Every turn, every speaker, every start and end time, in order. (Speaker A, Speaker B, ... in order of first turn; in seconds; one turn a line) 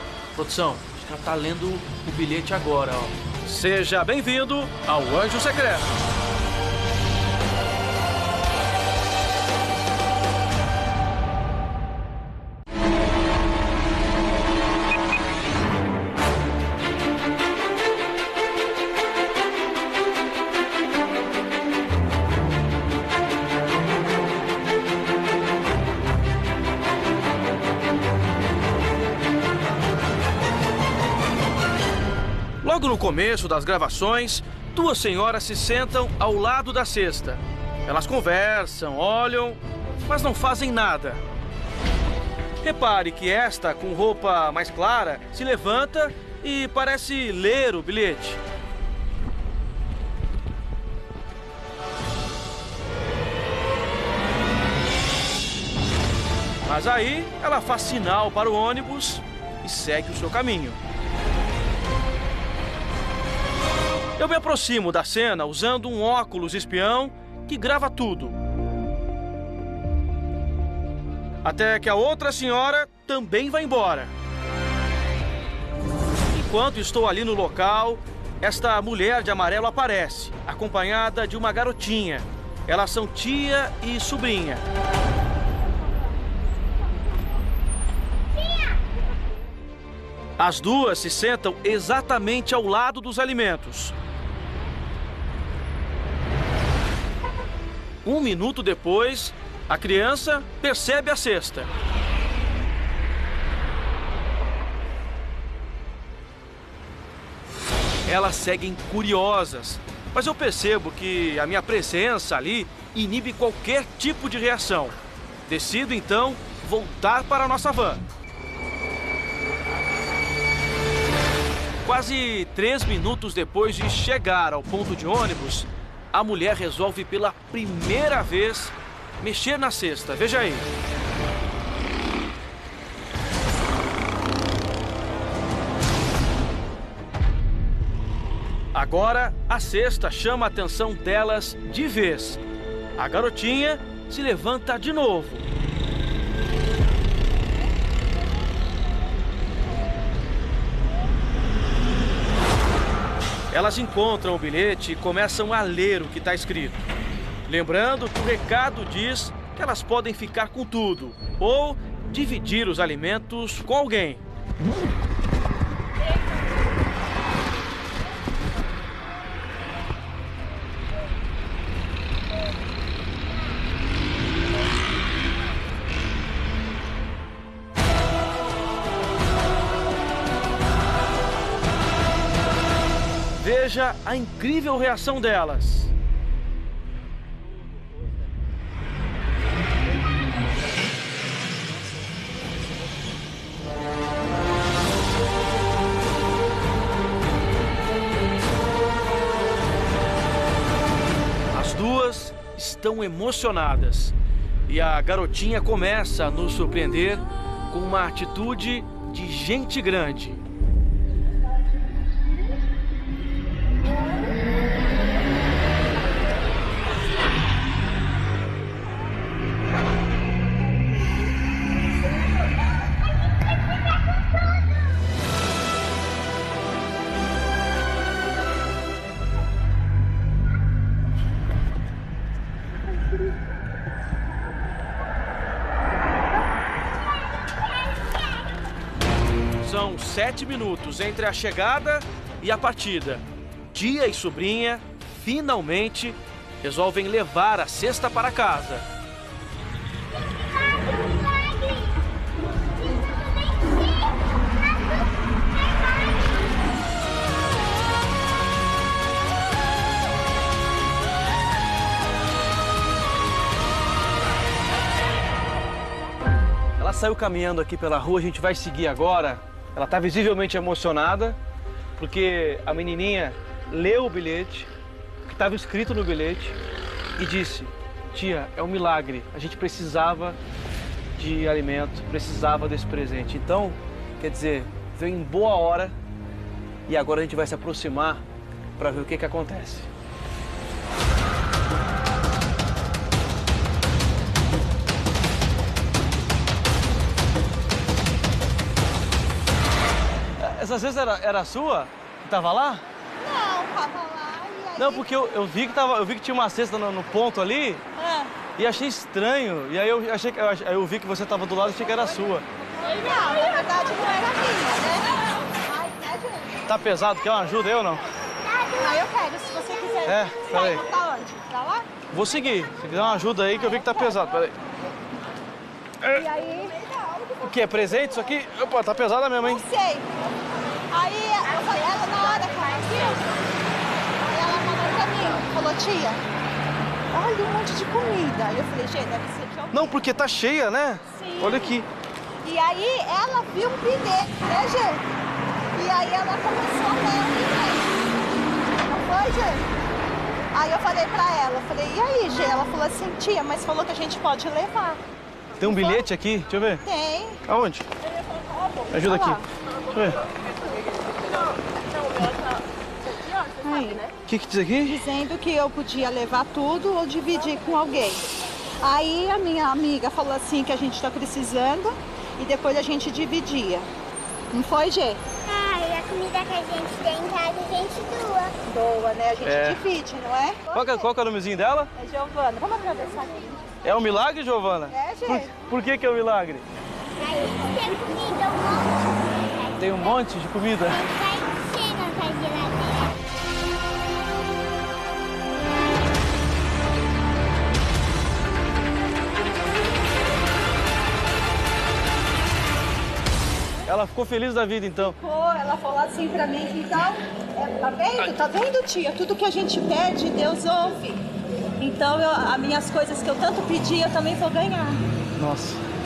Speaker A: 0.3-5.9
Speaker A: 32.6-41.2
Speaker A: 42.6-48.4
Speaker A: 56.6-60.8
Speaker A: 64.2-68.4
Speaker A: 71.4-74.1
Speaker A: 76.3-84.7
Speaker A: 90.4-94.0
Speaker A: 98.0-101.7
Speaker A: 108.0-118.0
Speaker A: 121.8-130.7
Speaker A: 138.7-142.4
Speaker A: 143.0-145.5
Speaker A: 153.5-156.9
Speaker A: 157.5-164.2
Speaker A: 183.4-185.9
Speaker A: 201.5-204.2
Speaker A: 204.7-210.4
Speaker A: 239.6-248.9
Speaker B: 250.3-252.0
Speaker B: 252.8-255.0
Speaker B: 255.7-256.2
Speaker A: 266.8-271.4
Speaker A: 272.0-274.7
Speaker A: 275.2-276.6
Speaker A: 277.2-280.4
Speaker A: 281.1-285.9
Speaker A: 286.9-288.2
Speaker A: 288.8-289.9
Speaker A: 300.4-302.8
Speaker C: 303.2-305.1
Speaker A: 304.8-307.8
Speaker C: 308.0-308.3
Speaker A: 308.5-312.4
Speaker C: 312.7-316.6
Speaker A: 316.7-318.0
Speaker C: 318.5-321.9
Speaker A: 320.1-320.9
Speaker A: 322.1-324.5
Speaker C: 326.1-327.5
Speaker A: 327.4-329.6
Speaker C: 329.4-330.1
Speaker C: 330.9-333.6
Speaker C: 334.1-336.2
Speaker C: 337.1-339.9
Speaker A: 339.7-341.9
Speaker C: 341.1-341.8
Speaker C: 342.4-345.0
Speaker C: 345.7-347.9
Speaker C: 348.9-349.7
Speaker C: 350.5-355.0
Speaker A: 355.6-356.8
Speaker C: 355.6-356.0
Speaker C: 356.9-357.4
Speaker A: 357.5-357.9
Speaker C: 358.6-359.4
Speaker A: 358.9-360.2
Speaker C: 361.1-362.5
Speaker C: 363.1-364.1
Speaker A: 364.3-365.0
Speaker C: 364.9-373.9
Speaker C: 374.5-375.4
Speaker B: 375.4-378.6
Speaker C: 378.6-381.1
Speaker A: 379.4-379.9
Speaker A: 380.7-381.9
Speaker C: 382.0-383.7
Speaker A: 383.8-386.7
Speaker C: 384.9-385.5
Speaker B: 387.2-390.2
Speaker A: 389.7-391.1
Speaker B: 390.9-393.2
Speaker A: 403.9-405.2
Speaker C: 405.0-411.2
Speaker C: 411.8-415.0
Speaker A: 415.4-415.8